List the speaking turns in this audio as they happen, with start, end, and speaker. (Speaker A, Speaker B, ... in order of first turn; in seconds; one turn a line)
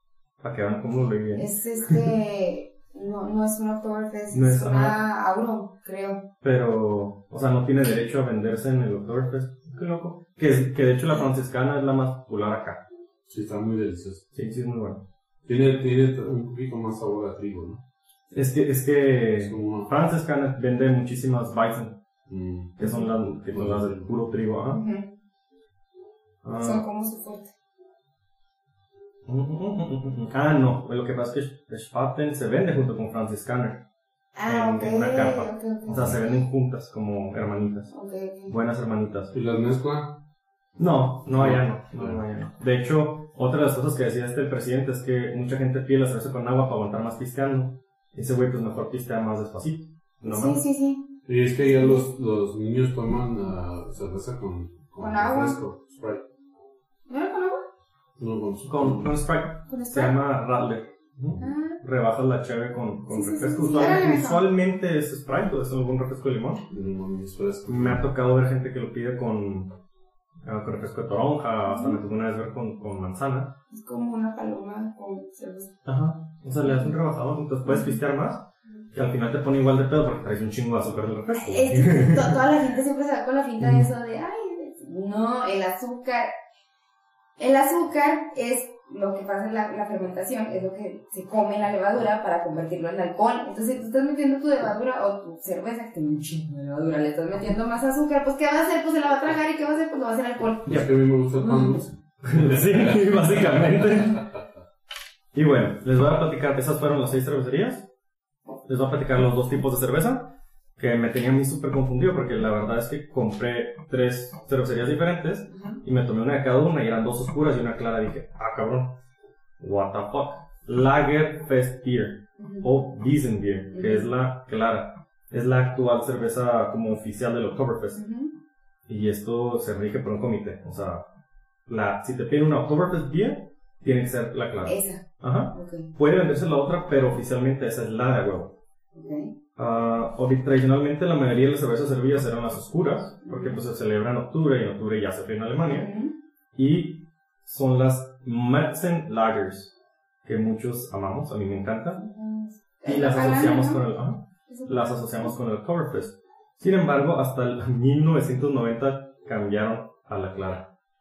Speaker A: 0.4-1.5
Speaker B: 1.4-6.2
Speaker A: 4.3-5.0
Speaker A: 6.4-12.8
Speaker C: 13.3-14.2
Speaker A: 14.3-15.0
Speaker C: 15.5-17.8
Speaker A: 18.3-22.0
Speaker C: 19.4-19.9
Speaker C: 22.3-24.1
Speaker A: 22.8-24.8
Speaker B: 24.7-25.1
Speaker A: 26.4-26.8
Speaker B: 26.6-27.5
Speaker A: 29.3-33.8
Speaker B: 34.4-36.4
Speaker A: 34.5-37.9
Speaker B: 37.9-38.6
Speaker A: 38.5-39.3
Speaker C: 39.3-40.2
Speaker A: 40.8-50.6
Speaker C: 41.3-42.2
Speaker B: 50.2-51.1
Speaker C: 51.3-56.2
Speaker B: 51.7-52.1
Speaker B: 55.0-55.6
Speaker B: 57.1-57.6
Speaker C: 58.2-59.1
Speaker A: 58.6-66.6
Speaker B: 59.7-60.2
Speaker B: 61.4-61.8
Speaker B: 63.1-64.5
Speaker C: 66.7-68.1
Speaker A: 67.7-69.7
Speaker A: 70.4-73.5
Speaker B: 71.7-72.0
Speaker B: 73.7-75.7
Speaker A: 75.9-82.4
Speaker B: 76.6-77.0
Speaker B: 77.7-78.0
Speaker B: 81.3-86.3
Speaker A: 83.6-83.9
Speaker B: 87.4-100.8
Speaker C: 100.7-103.7
Speaker B: 101.5-101.8
Speaker A: 102.2-104.2
Speaker A: 105.3-107.9
Speaker A: 108.7-118.9
Speaker B: 115.5-115.8
Speaker A: 119.6-128.0
Speaker B: 122.4-122.7
Speaker B: 123.7-124.1
Speaker B: 128.0-128.3
Speaker A: 128.9-131.0
Speaker A: 131.7-138.5
Speaker B: 134.7-135.9
Speaker B: 138.9-139.3
Speaker A: 139.6-145.9
Speaker B: 143.2-143.6
Speaker B: 145.6-146.1
Speaker A: 146.6-149.7
Speaker A: 150.2-152.0
Speaker B: 151.9-153.8
Speaker A: 152.8-160.7
Speaker B: 154.5-155.3